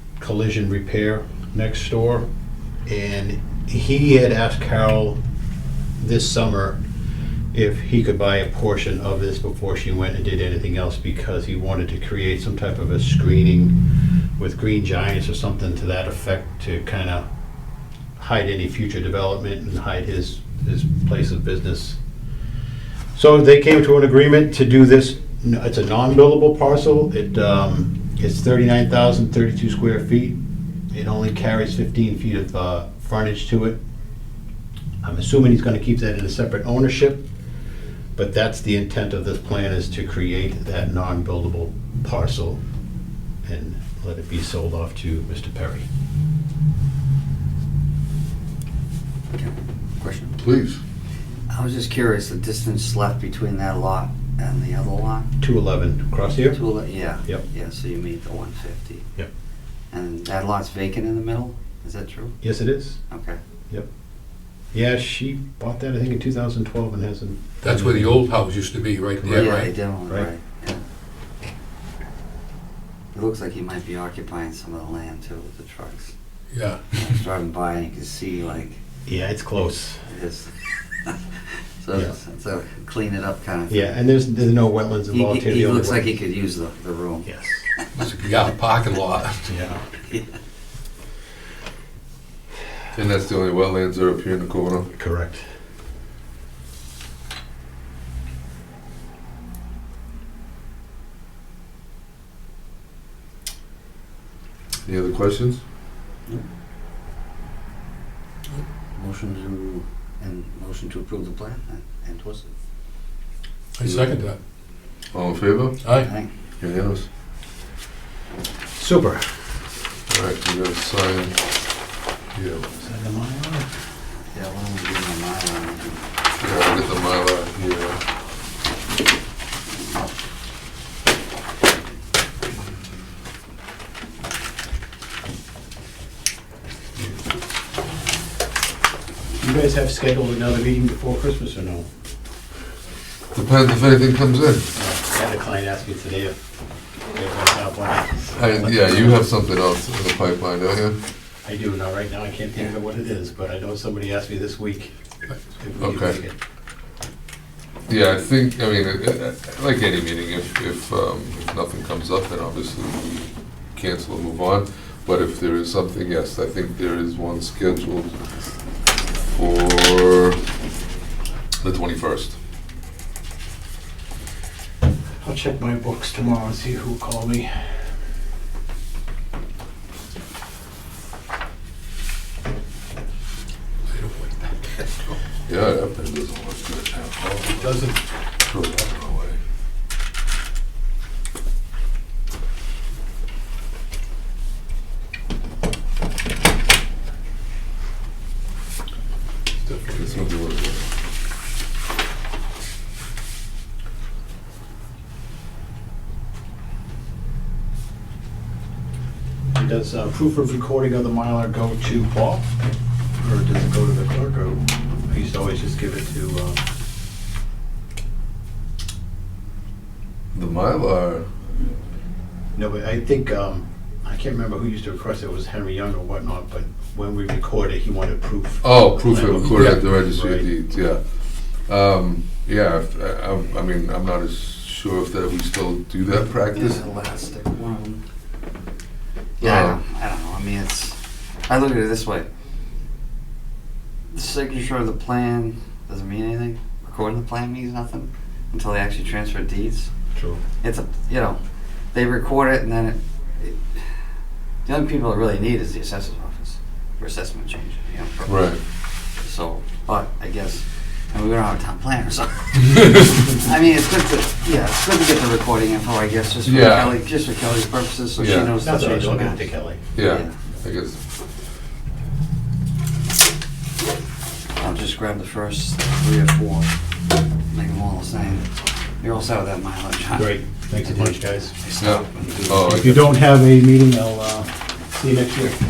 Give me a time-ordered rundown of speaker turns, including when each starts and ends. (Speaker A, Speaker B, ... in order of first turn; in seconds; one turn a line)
Speaker A: 0.2-2.2
Speaker A: 2.9-5.2
Speaker A: 6.0-6.8
Speaker A: 7.5-13.8
Speaker A: 14.4-17.2
Speaker A: 18.2-22.0
Speaker A: 23.1-30.4
Speaker A: 30.9-33.8
Speaker A: 35.0-37.2
Speaker A: 38.1-42.6
Speaker A: 43.4-45.9
Speaker B: 49.3-50.4
Speaker C: 50.4-50.8
Speaker B: 51.5-55.3
Speaker A: 55.4-56.6
Speaker B: 56.5-59.0
Speaker B: 59.9-62.4
Speaker A: 62.4-63.0
Speaker B: 63.1-63.4
Speaker A: 64.7-68.1
Speaker D: 67.6-69.7
Speaker A: 69.2-69.5
Speaker B: 69.3-70.8
Speaker B: 73.1-76.1
Speaker D: 76.5-77.1
Speaker B: 76.9-78.8
Speaker A: 79.0-80.0
Speaker B: 80.1-80.5
Speaker B: 81.8-84.0
Speaker A: 83.7-86.1
Speaker B: 85.1-87.3
Speaker A: 87.2-87.7
Speaker D: 87.9-89.5
Speaker A: 89.5-89.8
Speaker C: 92.9-94.9
Speaker A: 94.9-95.4
Speaker C: 104.8-105.6
Speaker B: 109.0-112.5
Speaker D: 113.8-114.4
Speaker C: 113.8-114.2
Speaker C: 115.1-115.8
Speaker D: 115.8-116.1
Speaker B: 116.0-116.3
Speaker C: 116.6-117.1
Speaker A: 118.8-119.2
Speaker C: 120.1-121.4
Speaker C: 122.3-122.7
Speaker A: 122.8-123.7
Speaker B: 124.3-126.1
Speaker C: 126.4-128.0
Speaker A: 139.4-141.8
Speaker C: 143.3-144.7
Speaker A: 144.8-146.3
Speaker A: 147.1-149.2
Speaker C: 148.3-151.0
Speaker A: 151.4-154.9
Speaker A: 155.6-156.4
Speaker C: 155.8-156.2
Speaker C: 157.9-168.1
Speaker C: 169.2-170.4
Speaker C: 171.6-172.3
Speaker A: 175.2-177.7
Speaker D: 183.9-185.1
Speaker C: 185.5-187.9
Speaker A: 187.4-188.0
Speaker C: 188.4-189.4
Speaker D: 199.6-200.1
Speaker C: 199.9-200.8
Speaker A: 209.5-212.5
Speaker A: 213.2-216.6
Speaker C: 220.3-221.2
Speaker A: 222.6-230.5
Speaker C: 228.6-231.0
Speaker D: 229.5-229.8
Speaker C: 231.7-236.8
Speaker B: 236.5-238.0
Speaker B: 239.4-242.3
Speaker C: 239.4-239.8
Speaker B: 244.1-249.9
Speaker A: 250.1-250.4
Speaker B: 250.6-251.4
Speaker B: 251.9-253.8
Speaker B: 254.7-258.5
Speaker C: 258.2-258.6
Speaker B: 259.2-270.3
Speaker C: 266.4-267.0
Speaker C: 268.2-268.5
Speaker A: 268.6-269.8
Speaker C: 269.9-271.0
Speaker B: 274.6-276.7
Speaker B: 277.5-278.5
Speaker B: 279.0-282.6
Speaker A: 280.1-281.5
Speaker C: 281.8-283.2
Speaker A: 282.3-285.6